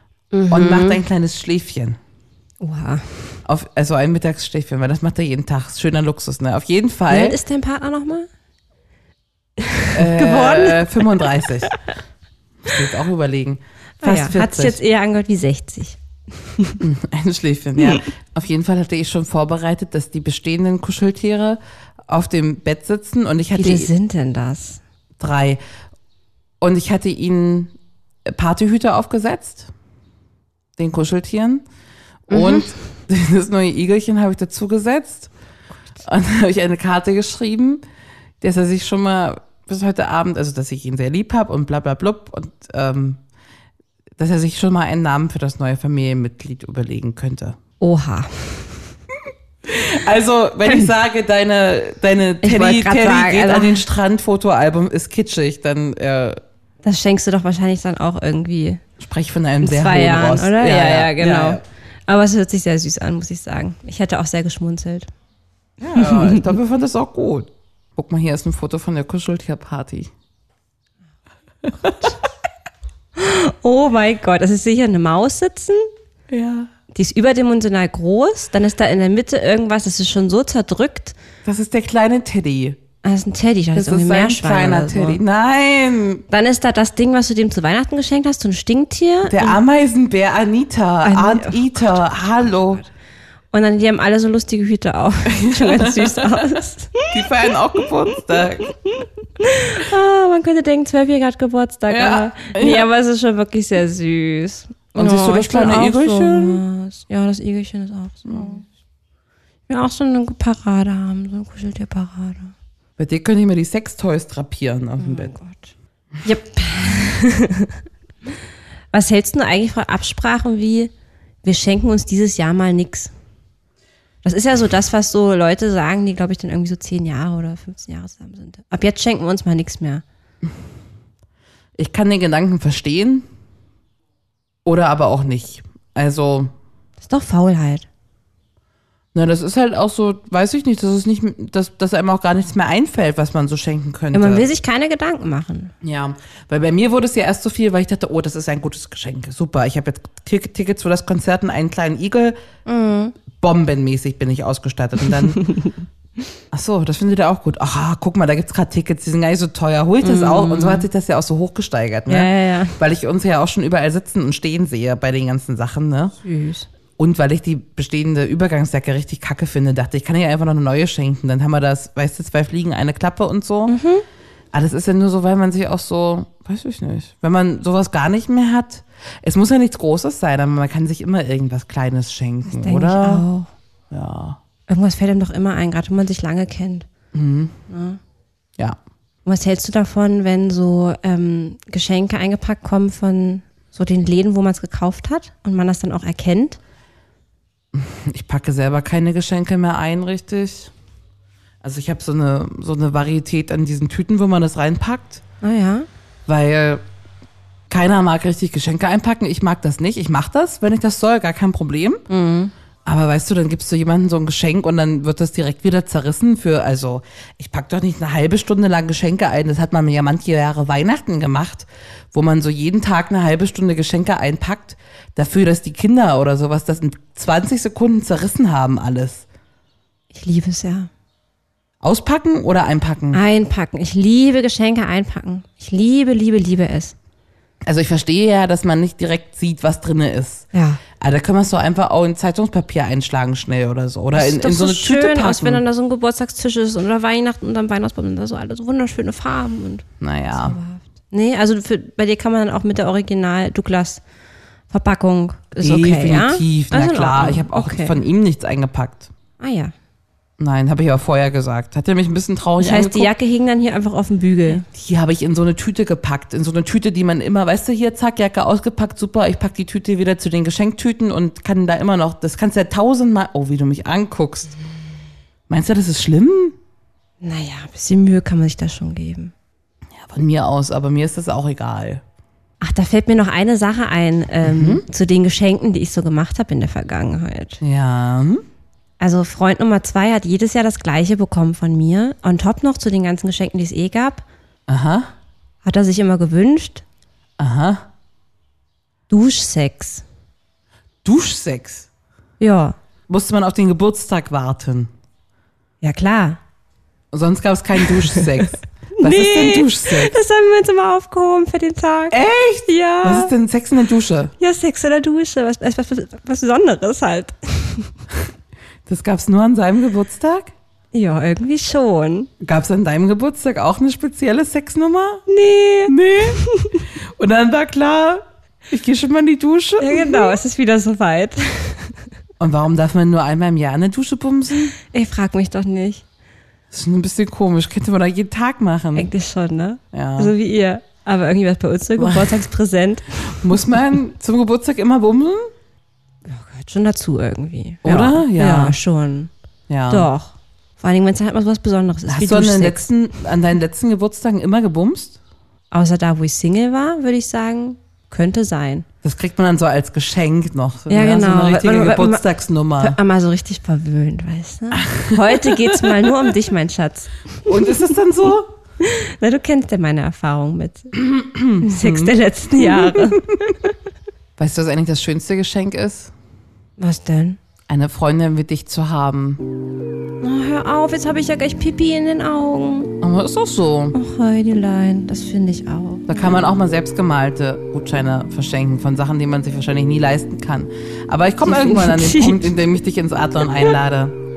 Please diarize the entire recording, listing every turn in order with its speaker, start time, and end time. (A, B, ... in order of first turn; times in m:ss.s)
0:00.3-0:01.0 A
0:00.5-0:02.0 B
0:02.6-0:03.1 A
0:03.4-0:07.4 B
0:07.1-0:08.3 A
0:09.6-0:11.8 A
0:09.9-0:11.7 B
0:12.6-0:14.8 B
0:14.0-0:16.8 A
0:16.8-0:23.9 B
0:23.5-0:24.8 A
0:25.2-0:25.6 B
0:26.6-0:27.7 B
0:28.2-0:29.7 B
0:30.8-0:31.6 B
0:32.3-0:35.3 B
0:32.3-0:32.7 A
0:36.0-0:37.8 B
0:38.4-0:43.2 B
0:44.2-0:47.6 B
0:47.8-0:48.7 A
0:49.6-0:56.4 B
0:52.4-0:53.8 A
0:56.8-0:58.8 A
0:59.0-1:01.6 B
0:59.6-1:05.1 A
1:05.8-1:10.1 B
1:06.0-1:06.5 A
1:13.2-1:15.9 A
1:16.3-1:16.7 B
1:16.9-1:21.2 A
1:21.4-1:22.8 B
1:23.0-1:25.2 A
1:23.7-1:26.2 B
1:26.3-1:29.6 A
1:29.3-1:32.8 B
1:31.0-1:32.8 A
1:33.5-1:37.1 A
1:35.3-1:36.3 B
1:37.1-1:38.7 B
1:38.6-1:48.6 A
1:41.9-1:42.9 B
1:44.9-1:46.6 B
1:49.7-1:52.5 A
1:53.0-1:55.3 B
1:55.0-1:55.7 A
1:56.2-1:57.8 A
1:58.9-2:00.9 A
2:01.4-2:03.1 A
2:04.2-2:10.0 A
2:11.8-2:13.3 B
2:14.6-2:16.5 B
2:17.0-2:17.9 A
2:19.1-2:24.5 B
2:24.1-2:25.7 A
2:25.8-2:32.4 B
2:32.6-2:33.1 A
2:33.3-2:35.4 B
2:36.5-2:46.2 B
2:40.0-2:40.8 A
2:42.1-2:42.8 A
2:46.2-2:46.6 A
2:47.0-2:53.8 B
2:53.7-2:54.0 A
2:54.5-3:03.2 B
3:02.4-3:03.5 A
3:03.9-3:04.4 B
3:04.7-3:06.9 A
3:07.1-3:07.6 B
3:07.7-3:08.0 A
3:09.2-3:16.6 A
3:17.7-3:20.7 B
3:21.6-3:25.2 B
3:25.4-3:25.9 A
3:26.2-3:26.8 B
3:27.7-3:32.0 B
3:32.1-3:32.5 A
3:32.8-3:49.2 B
3:50.1-3:50.9 A
3:51.8-3:53.2 B
3:53.1-3:56.9 A
3:57.6-4:05.6 B
4:00.5-4:00.8 A
4:04.1-4:14.0 A
4:10.0-4:10.6 B
4:14.7-4:18.0 A
4:15.6-4:19.1 B
4:19.4-4:19.7 A
4:20.4-4:23.1 B
4:22.6-4:24.6 A
4:24.6-4:34.6 B
4:35.5-4:36.6 B
4:37.2-4:39.3 A
4:39.9-4:42.0 B
4:42.6-4:47.6 A
4:44.4-4:44.8 B
4:47.6-4:48.4 B
4:49.0-4:54.2 A
4:54.7-4:55.1 B
4:55.6-4:56.8 A
4:57.4-4:57.8 B
4:59.1-5:00.0 A
5:01.0-5:01.9 B
5:02.4-5:02.8 A
5:03.1-5:04.9 B
5:05.8-5:06.4 A
5:07.1-5:10.1 B
5:09.0-5:13.3 A
5:12.1-5:14.3 B
5:14.4-5:17.9 A
5:18.8-5:20.5 B
5:20.9-5:22.3 A
5:22.4-5:25.2 B
5:25.3-5:26.8 A
5:25.8-5:26.4 B
5:27.1-5:30.4 B
5:29.8-5:32.0 A
5:32.4-5:34.7 B
5:34.9-5:36.0 A
5:36.7-5:39.1 B
5:38.9-5:43.4 A
5:39.9-5:40.3 B
5:42.0-5:42.4 B
5:43.4-5:45.5 B
5:46.2-5:49.3 A
5:47.8-5:48.8 B
5:49.7-5:50.1 B
5:49.9-5:52.9 A
5:52.1-5:55.2 B
5:55.7-5:58.8 A
5:59.0-6:03.0 B
6:00.9-6:02.2 A
6:02.8-6:07.7 A
6:04.8-6:06.1 B
6:07.4-6:08.5 B
6:08.8-6:10.9 A
6:10.9-6:13.4 B
6:11.6-6:13.5 A
6:14.4-6:16.1 B
6:16.8-6:17.4 A
6:17.7-6:19.4 B
6:20.2-6:23.0 A
6:23.0-6:24.0 B
6:23.9-6:26.3 A
6:26.1-6:34.2 B
6:31.4-6:32.6 A